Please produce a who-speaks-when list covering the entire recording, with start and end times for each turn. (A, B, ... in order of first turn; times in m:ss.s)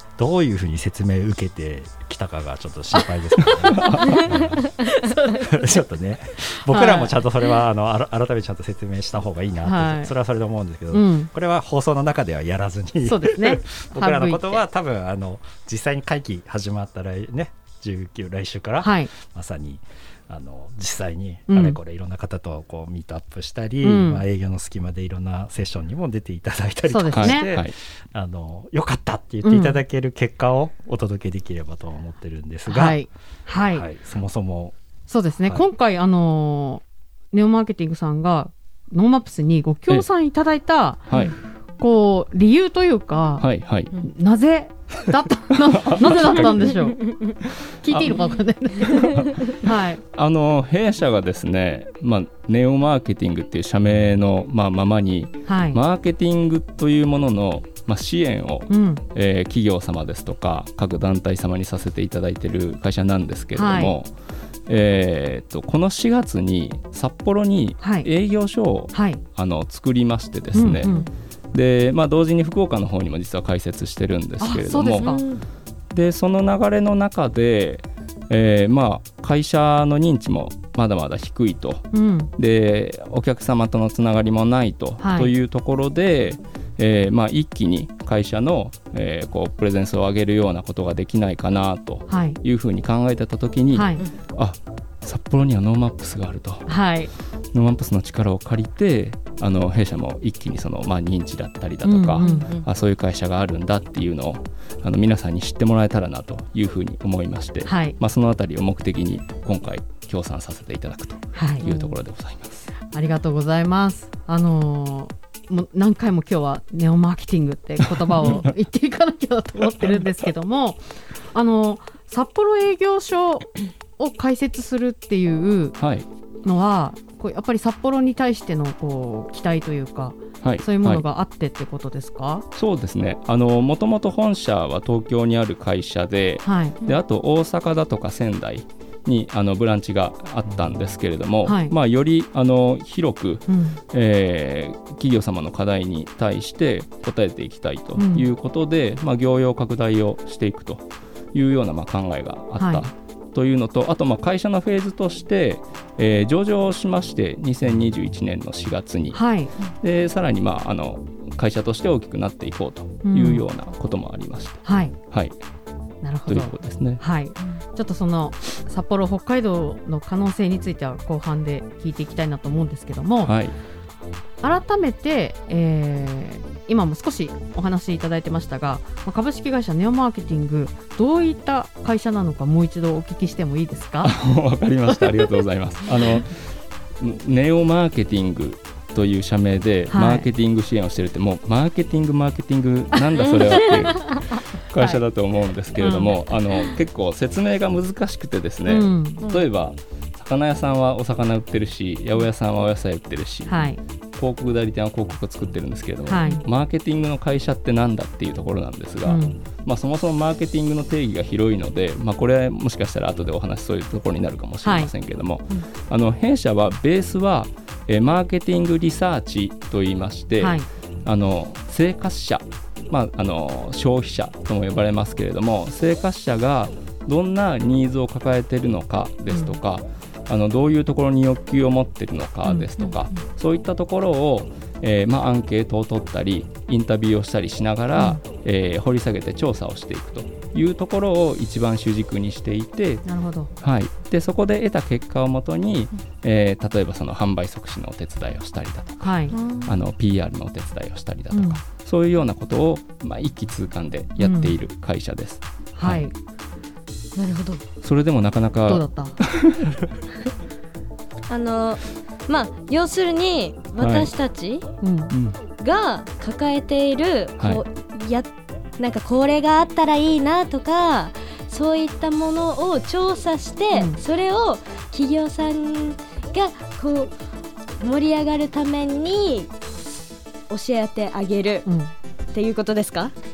0:00.2-0:33.0 A
0:03.7-0:04.3 B
0:05.0-0:05.4 C
0:06.7-0:07.2 C
0:09.6-0:10.1 C
0:10.9-0:11.3 C
0:13.1-0:14.6 C
0:18.8-0:19.1 C
0:21.5-0:21.8 C
0:23.8-0:24.2 C
0:26.9-0:27.5 C
0:27.1-0:27.7 B
0:29.4-0:29.8 C
0:32.7-0:33.8 C
0:33.7-0:34.8 A
0:35.1-0:41.1 C
0:41.1-0:41.3 B
0:41.8-0:43.5 C
0:43.4-0:43.9 B
0:44.0-0:47.2 C
0:45.8-0:46.5 B
0:47.0-0:47.3 D
0:47.8-0:50.0 C
0:47.9-0:48.2 B
0:48.8-0:49.6 B
0:50.1-1:04.1 B
0:55.5-0:55.8 C
0:58.7-0:59.0 C
1:03.6-1:03.9 C
1:04.7-1:10.9 B
1:07.8-1:08.1 C
1:08.9-1:09.2 C
1:10.6-1:11.0 C
1:10.8-1:11.1 D
1:11.5-1:15.1 B
1:14.4-1:15.2 C
1:15.0-1:15.4 D
1:15.9-1:36.8 B
1:21.9-1:22.3 C
1:25.0-1:25.3 C
1:32.1-1:32.4 C
1:33.7-1:34.0 C
1:36.7-1:37.1 C
1:37.5-1:52.7 B
1:41.8-1:42.5 C
1:42.2-1:42.7 D
1:47.7-1:48.0 C
1:51.4-1:51.7 C
1:51.7-1:51.9 D
1:52.8-2:05.8 C
2:05.8-2:06.1 B
2:06.4-2:12.4 C
2:10.4-2:11.0 B
2:12.6-2:39.2 B
2:16.4-2:16.8 C
2:21.4-2:21.7 C
2:23.5-2:23.8 C
2:28.0-2:28.3 C
2:32.6-2:32.8 C
2:39.1-2:39.5 C
2:39.8-2:45.4 B
2:43.0-2:43.4 C
2:44.6-2:45.0 C
2:46.0-2:53.4 C
2:46.3-2:47.0 B
2:53.2-2:53.6 B
2:54.4-3:04.2 C
3:04.0-3:06.5 B
3:07.0-4:03.0 B
3:09.9-3:10.3 C
3:13.4-3:13.8 D
3:13.5-3:13.8 C
3:15.8-3:16.1 C
3:18.7-3:19.2 C
3:23.5-3:23.8 C
3:26.1-3:26.4 C
3:29.0-3:29.4 C
3:34.6-3:34.9 C
3:40.4-3:40.7 C
3:49.3-3:49.6 C
3:52.8-3:53.2 D
3:58.0-3:58.2 C
4:03.0-4:03.5 C
4:03.6-4:16.1 B
4:09.0-4:09.4 C
4:09.3-4:09.8 D
4:11.3-4:11.6 C
4:14.2-4:14.6 C
4:15.8-4:16.1 C
4:17.2-4:17.6 D
4:17.8-4:19.8 B
4:18.7-4:19.2 C
4:21.3-4:24.6 D
4:23.8-4:24.1 B
4:24.8-4:25.1 C
4:25.1-4:25.4 B
4:25.6-4:37.2 D
4:33.7-4:34.0 C
4:37.8-4:39.6 D
4:40.5-4:41.7 D
4:41.7-4:41.9 C
4:42.3-4:43.1 D